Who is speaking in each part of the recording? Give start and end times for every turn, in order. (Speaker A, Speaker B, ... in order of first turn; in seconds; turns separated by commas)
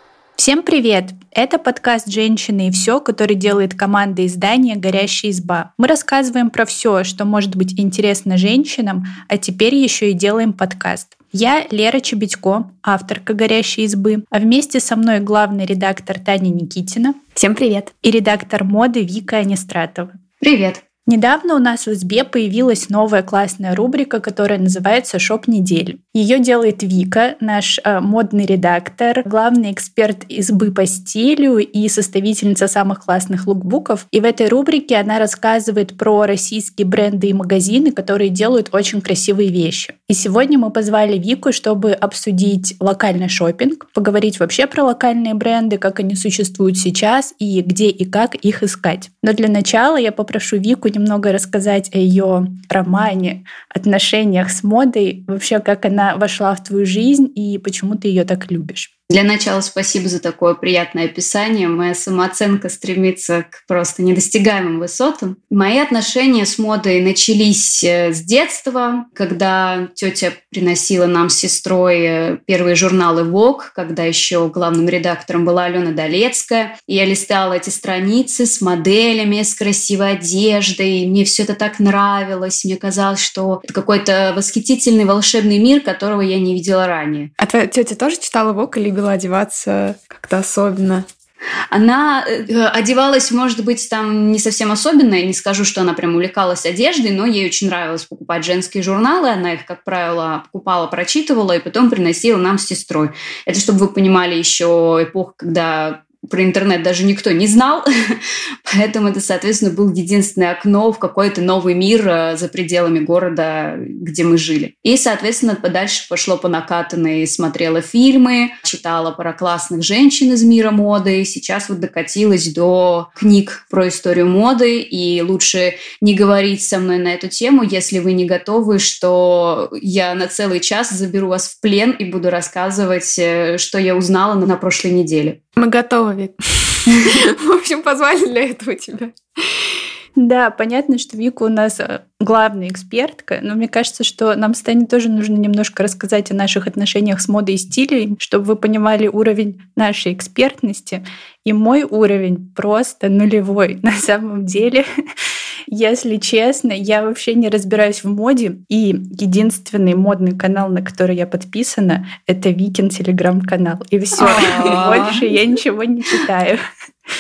Speaker A: 0.4-17.2, Speaker B: 17.4-17.9, Speaker A: 18.0-20.2, Speaker C: 20.4-20.8, Speaker A: 21.1-58.9, Speaker C: 59.1-87.3, Speaker B: 87.4-91.1, Speaker C: 91.7-135.4, Speaker B: 135.6-139.2, Speaker A: 140.2-154.9, Speaker A: 155.7-166.6, Speaker C: 164.2-165.3